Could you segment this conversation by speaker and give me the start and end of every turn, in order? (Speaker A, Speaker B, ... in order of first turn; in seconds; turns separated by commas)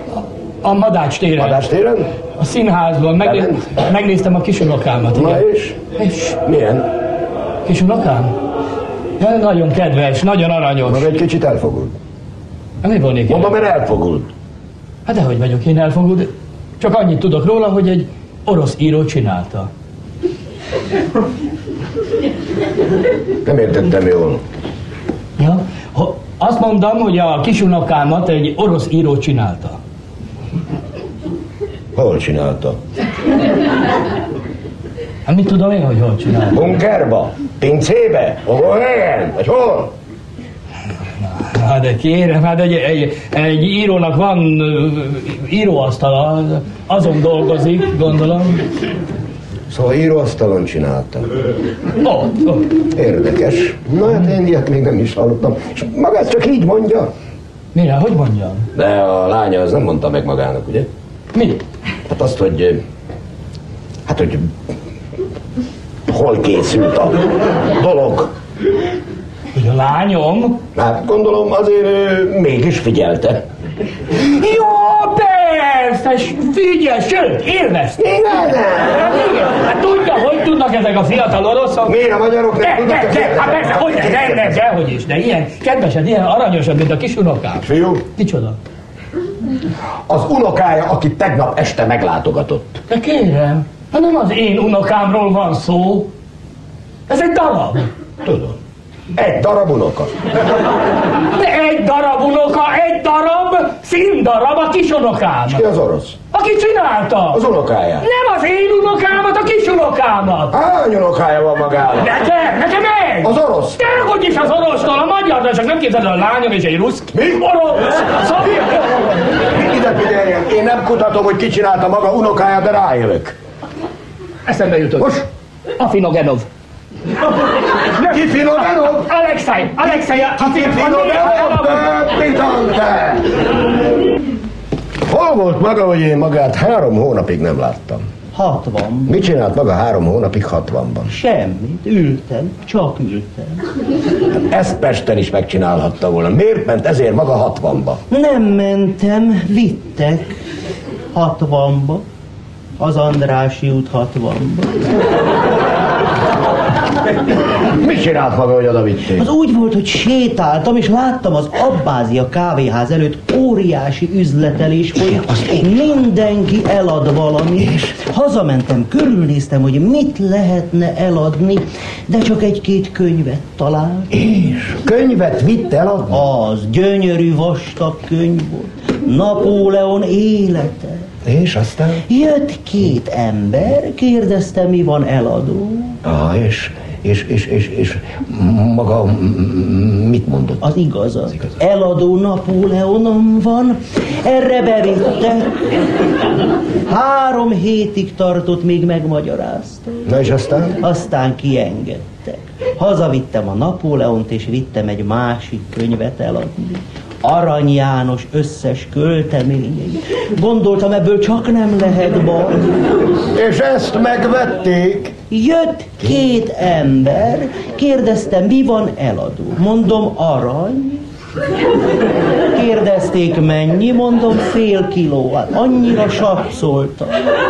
Speaker A: 0.6-1.6, Speaker B: 1.4-2.1, Speaker A: 2.4-5.4, Speaker B: 3.2-3.8, Speaker B: 5.1-5.8, Speaker A: 6.0-6.4, Speaker B: 6.4-6.8, Speaker A: 7.7-8.3, Speaker A: 9.2-11.1, Speaker B: 10.9-11.9, Speaker A: 12.8-13.6, Speaker B: 13.3-14.3, Speaker A: 15.1-19.7, Speaker B: 23.4-24.4, Speaker A: 25.4-29.8, Speaker B: 31.9-32.8, Speaker A: 35.2-36.6, Speaker B: 36.5-39.9, Speaker A: 41.2-48.6, Speaker B: 49.7-51.4, Speaker A: 52.0-52.6, Speaker B: 52.9-57.1, Speaker A: 57.7-58.7, Speaker B: 58.8-60.9, Speaker A: 61.3-61.6, Speaker B: 62.1-62.8, Speaker B: 64.1-64.5, Speaker B: 66.1-68.3, Speaker A: 69.5-70.6, Speaker B: 70.7-73.4, Speaker A: 74.2-78.0, Speaker B: 78.0-79.1, Speaker A: 78.9-81.9, Speaker B: 81.9-84.6, Speaker A: 82.6-87.7, Speaker B: 87.6-88.0, Speaker A: 88.2-88.6, Speaker B: 90.1-92.8, Speaker A: 92.9-96.1, Speaker A: 97.1-97.9, Speaker B: 98.2-98.5, Speaker B: 99.2-100.1, Speaker A: 101.3-105.6, Speaker B: 105.5-106.2, Speaker A: 106.3-107.4, Speaker B: 107.3-108.0, Speaker A: 108.0-110.5, Speaker B: 110.5-112.2, Speaker A: 112.0-119.2, Speaker B: 113.2-113.8, Speaker B: 117.1-117.4, Speaker B: 119.5-123.3, Speaker A: 124.5-125.2, Speaker A: 125.8-126.5, Speaker A: 128.0-131.9, Speaker B: 128.0-129.1, Speaker B: 129.8-133.5, Speaker B: 135.1-138.0, Speaker C: 138.3-139.2, Speaker B: 139.1-141.1, Speaker C: 141.1-143.6, Speaker B: 144.5-148.0, Speaker C: 148.1-150.3, Speaker C: 151.1-152.0, Speaker C: 152.8-155.1, Speaker B: 157.8-159.2, Speaker C: 159.1-174.1, Speaker B: 165.1-165.7, Speaker B: 167.6-167.9, Speaker B: 174.1-176.2, Speaker C: 176.1-181.1, Speaker B: 181.2-182.0, Speaker C: 182.1-186.0, Speaker B: 186.0-190.6, Speaker C: 190.6-195.6, Speaker C: 196.9-200.1, Speaker B: 200.1-200.8, Speaker C: 200.8-212.6, Speaker B: 213.3-215.1, Speaker C: 215.3-221.0, Speaker C: 222.5-227.2